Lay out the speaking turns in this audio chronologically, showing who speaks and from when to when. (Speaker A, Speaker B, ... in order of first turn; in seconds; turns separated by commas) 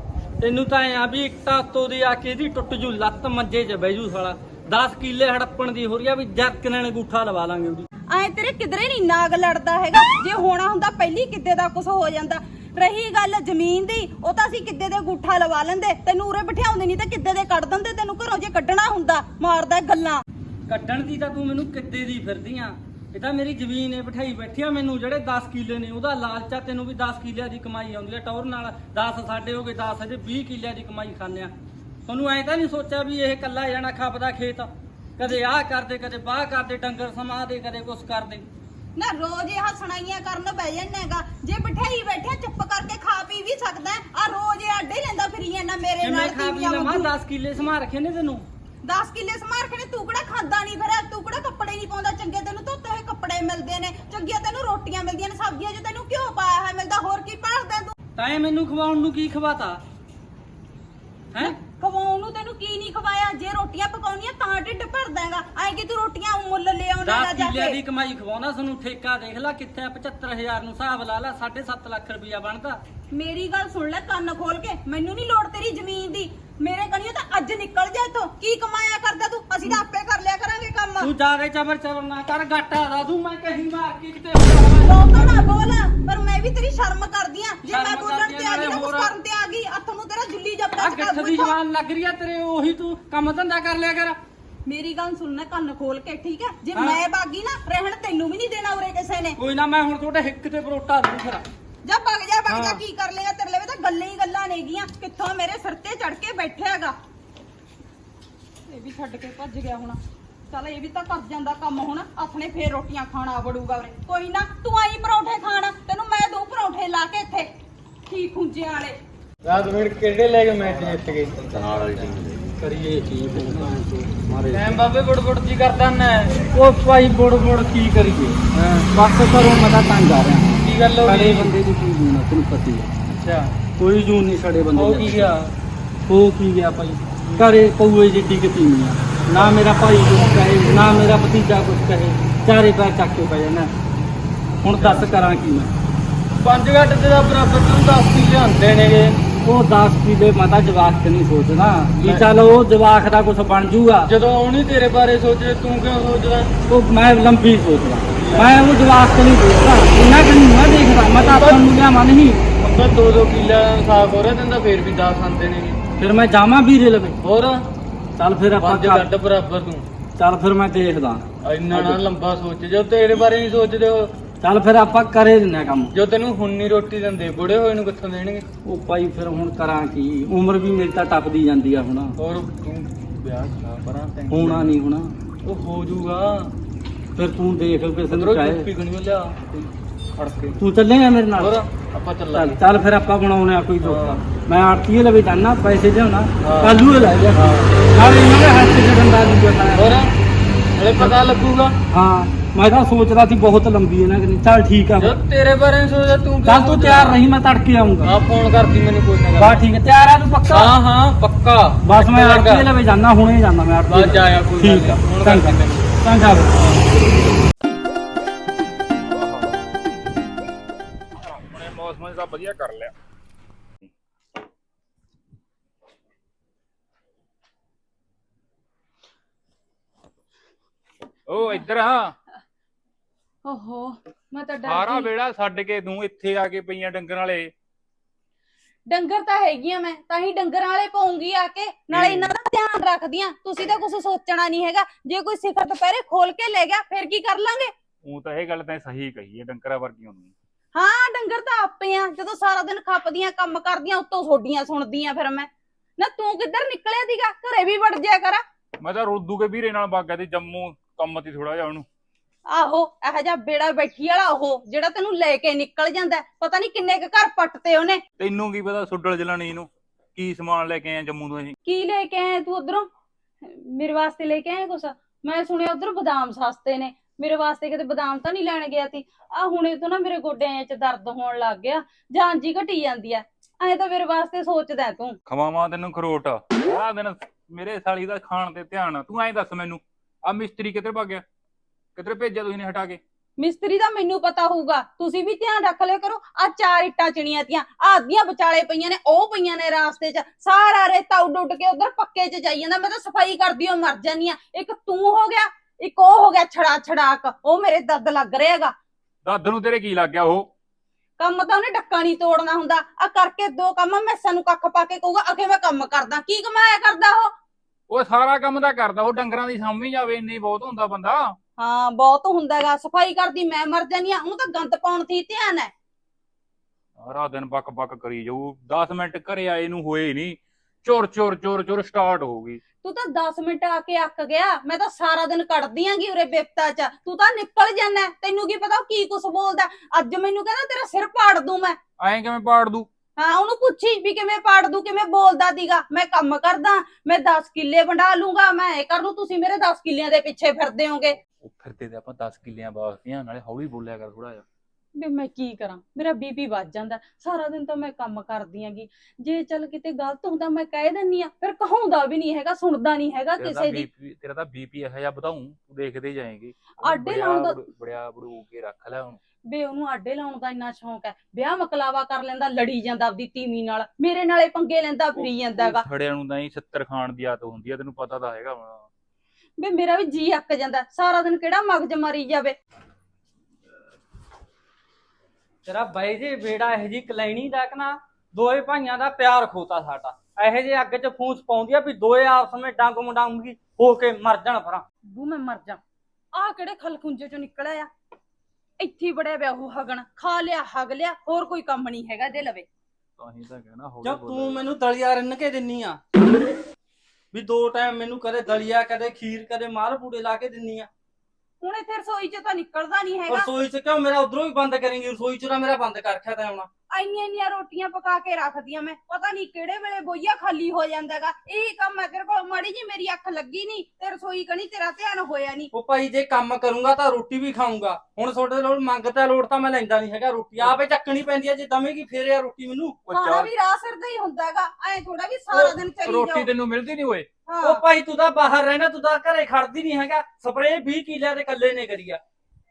Speaker A: 0.4-7.9, Speaker B: 8.1-20.2, Speaker A: 20.7-31.5, Speaker A: 32.1-38.5, Speaker B: 39.0-47.1, Speaker A: 46.0-48.5, Speaker B: 48.8-57.9, Speaker A: 58.2-59.8, Speaker B: 61.4-67.8, Speaker A: 67.0-72.8, Speaker B: 73.1-81.1, Speaker A: 81.0-85.3, Speaker B: 84.8-91.5, Speaker A: 87.7-89.1, Speaker A: 90.8-94.2, Speaker B: 94.7-99.4, Speaker A: 96.7-97.0, Speaker A: 99.4-101.4, Speaker B: 101.8-106.9, Speaker A: 102.5-102.8, Speaker B: 108.7-110.0, Speaker B: 110.5-117.5, Speaker B: 118.1-118.9, Speaker C: 119.4-122.4, Speaker A: 121.6-124.8, Speaker C: 124.5-126.3, Speaker A: 126.5-132.9, Speaker C: 130.6-131.5, Speaker C: 133.1-133.5, Speaker A: 133.8-135.3, Speaker C: 134.7-135.5, Speaker A: 136.1-143.7, Speaker C: 137.2-137.5, Speaker C: 139.3-139.7, Speaker C: 140.5-141.0, Speaker A: 144.6-145.7, Speaker C: 144.7-145.2, Speaker C: 146.4-149.2, Speaker A: 149.4-154.1, Speaker C: 152.0-152.3, Speaker C: 154.0-156.5, Speaker A: 156.7-162.4, Speaker C: 158.2-158.6, Speaker C: 161.1-161.7, Speaker C: 162.6-165.8, Speaker A: 166.0-167.2, Speaker C: 167.2-167.7, Speaker A: 168.2-169.1, Speaker C: 168.6-169.9, Speaker A: 170.2-172.0, Speaker C: 171.4-174.1, Speaker A: 174.4-175.9, Speaker C: 175.9-178.5, Speaker A: 178.6-182.2, Speaker C: 182.2-184.7, Speaker A: 184.3-185.1, Speaker C: 185.4-186.5, Speaker A: 187.2-188.7, Speaker C: 188.1-190.6, Speaker A: 190.6-191.6, Speaker C: 191.3-192.6, Speaker A: 192.3-200.1, Speaker C: 193.8-194.2, Speaker C: 196.4-197.8, Speaker C: 199.7-200.1, Speaker C: 200.8-201.7, Speaker A: 201.9-205.2, Speaker C: 205.0-207.2, Speaker A: 206.4-208.2, Speaker C: 208.0-209.7, Speaker A: 209.4-210.8, Speaker C: 210.5-212.7, Speaker A: 211.8-216.6, Speaker C: 213.9-216.8, Speaker D: 219.1-219.5, Speaker D: 221.2-222.9, Speaker D: 231.3-232.1, Speaker B: 233.4-235.1, Speaker D: 234.6-237.5, Speaker B: 238.9-247.7, Speaker D: 241.9-242.3, Speaker D: 248.0-250.3, Speaker B: 250.7-258.4, Speaker D: 258.8-261.9, Speaker B: 262.5-268.0, Speaker D: 268.2-271.5, Speaker B: 271.6-272.9, Speaker B: 273.4-285.2, Speaker D: 285.3-291.2, Speaker D: 291.9-293.0, Speaker B: 293.4-308.7, Speaker D: 309.2-310.5, Speaker B: 311.2-317.3, Speaker D: 317.9-321.4, Speaker B: 321.6-325.7, Speaker D: 327.0-332.6, Speaker B: 332.8-341.8, Speaker D: 342.0-342.9, Speaker B: 343.2-351.2, Speaker D: 351.4-354.4, Speaker B: 355.0-363.9, Speaker D: 363.4-369.2, Speaker B: 366.8-367.6, Speaker B: 369.5-375.8, Speaker D: 375.1-378.8, Speaker B: 379.6-382.5, Speaker A: 385.6-394.8, Speaker B: 395.1-395.8, Speaker B: 396.3-397.9, Speaker B: 398.8-402.7, Speaker D: 403.2-404.6, Speaker A: 404.0-406.2, Speaker A: 407.3-410.9, Speaker B: 411.6-413.5, Speaker A: 413.3-416.7, Speaker B: 416.9-425.7, Speaker A: 425.7-433.0, Speaker D: 433.1-433.5, Speaker B: 433.1-436.5, Speaker D: 435.5-437.3, Speaker B: 437.5-437.8, Speaker A: 437.6-442.2